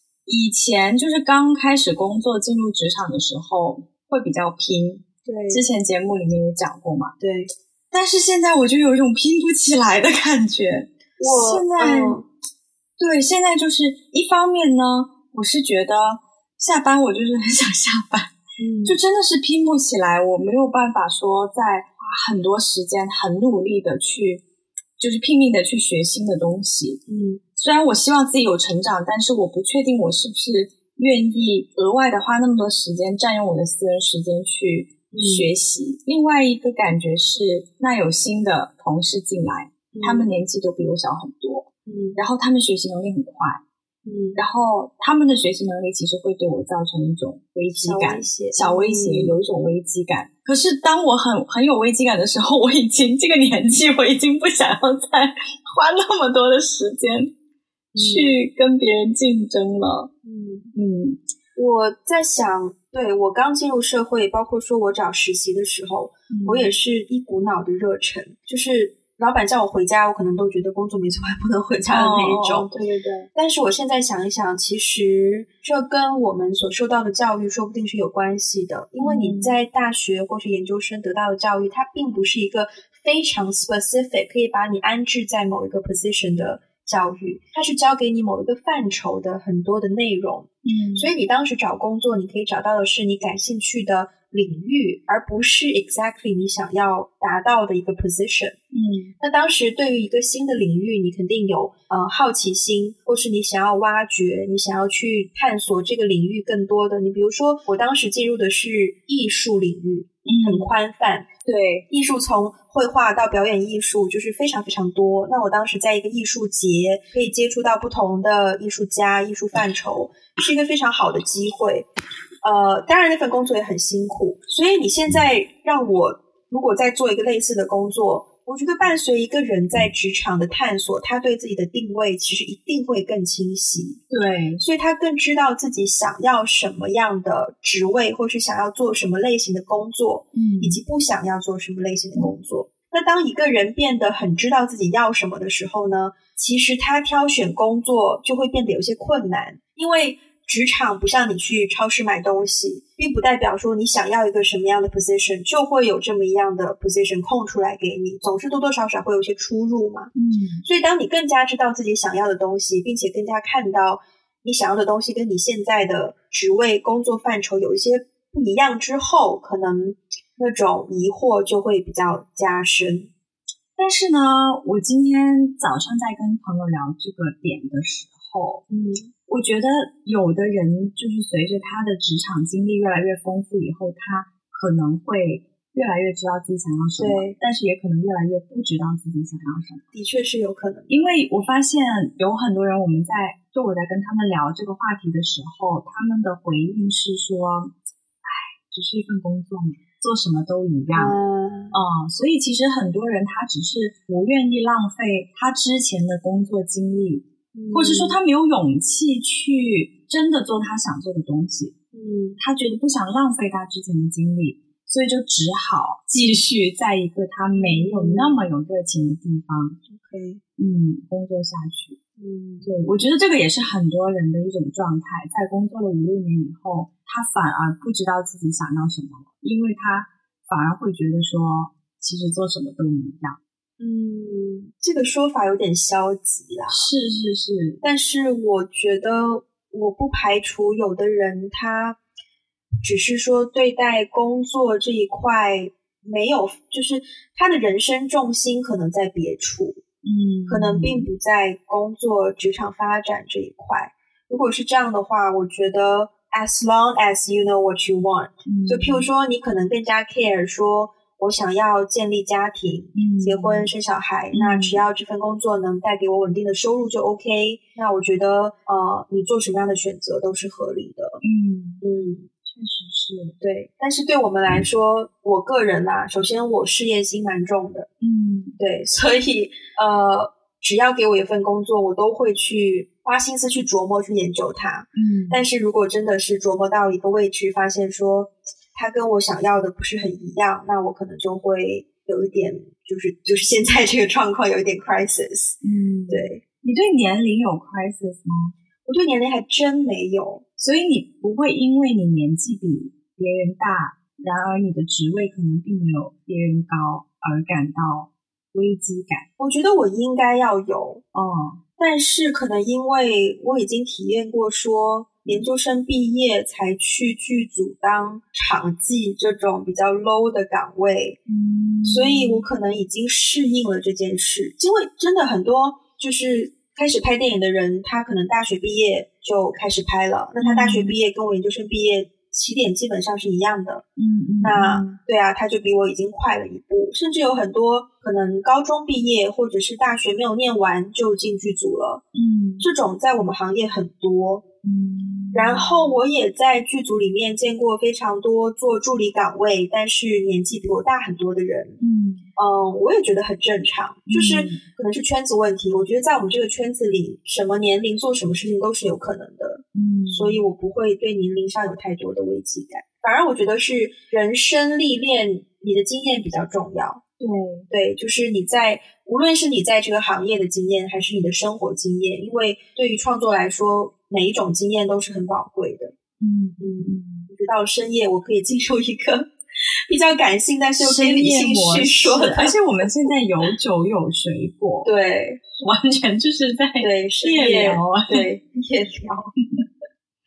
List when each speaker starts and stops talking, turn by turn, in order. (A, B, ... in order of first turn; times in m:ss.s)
0:00.2-0:07.2 A
0:05.2-0:05.6 B
0:07.2-0:07.5 B
0:07.9-0:12.2 A
0:11.2-0:12.2 B
0:13.0-0:18.3 A
0:18.6-0:19.0 B
0:18.8-0:24.4 A
0:25.0-0:27.0 A
0:27.1-0:27.4 B
0:27.6-0:43.6 A
0:35.1-0:35.5 B
0:39.9-0:40.3 B
0:41.9-0:42.2 B
0:44.0-0:44.4 B
0:44.4-0:57.3 A
0:47.7-0:49.4 B
0:57.9-0:58.4 B
0:58.0-1:00.1 A
1:00.2-1:00.7 B
1:00.7-1:01.2 A
1:01.5-1:12.7 B
1:06.3-1:06.7 A
1:11.9-1:13.3 A
1:13.3-1:38.6 B
1:19.0-1:19.5 A
1:30.6-1:31.1 A
1:38.7-1:39.1 A
1:39.2-1:51.3 B
1:50.2-1:50.7 A
1:51.4-1:51.9 A
1:51.9-2:01.9 B
2:02.4-2:14.0 B
2:14.1-2:14.6 A
2:14.6-2:40.1 B
2:20.3-2:20.8 A
2:40.1-2:40.6 A
2:40.6-2:53.1 B
2:53.8-2:58.6 A
2:58.7-2:59.1 B
2:59.3-3:09.9 A
3:07.0-3:07.4 B
3:09.9-3:11.1 B
3:10.9-3:17.7 A
3:18.2-3:21.2 A
3:20.9-3:21.8 B
3:21.7-3:31.8 A
3:27.5-3:28.2 B
3:31.9-3:32.4 B
3:32.4-3:39.8 A
3:37.5-3:38.4 B
3:39.9-3:40.4 B
3:40.6-3:42.0 A
3:42.2-3:42.7 B
3:42.6-3:53.4 A
3:53.8-3:56.9 B
3:56.7-3:57.8 A
3:57.8-4:02.0 B
4:02.8-4:09.8 B
4:10.0-4:11.1 A
4:10.5-4:31.2 B
4:18.4-4:19.1 A
4:22.9-4:23.7 A
4:24.3-4:24.8 A
4:31.2-4:31.8 A
4:31.8-4:32.3 B
4:32.4-4:33.4 A
4:33.4-4:37.9 B
4:38.0-4:38.6 A
4:38.6-4:56.4 B
4:44.9-4:45.4 A
4:55.6-4:58.5 A
4:58.8-5:00.4 B
5:00.6-5:09.3 A
5:09.4-5:11.0 B
5:11.1-5:11.6 A
5:11.8-5:21.2 B
5:21.2-5:22.5 A
5:21.8-5:33.8 B
5:30.4-5:30.9 A
5:34.0-5:35.0 A
5:34.4-5:42.0 B
5:42.1-5:42.7 A
5:42.6-5:44.4 B
5:44.6-5:46.0 A
5:45.3-5:51.8 B
5:51.8-5:52.3 A
5:52.4-6:07.0 B
5:54.1-5:54.6 A
5:59.7-6:00.5 A
6:07.2-6:07.7 A
6:07.7-6:15.9 B
6:16.2-6:17.3 A
6:16.6-6:22.6 B
6:20.8-6:24.9 A
6:24.8-6:25.4 B
6:25.6-6:28.3 A
6:26.8-6:29.3 B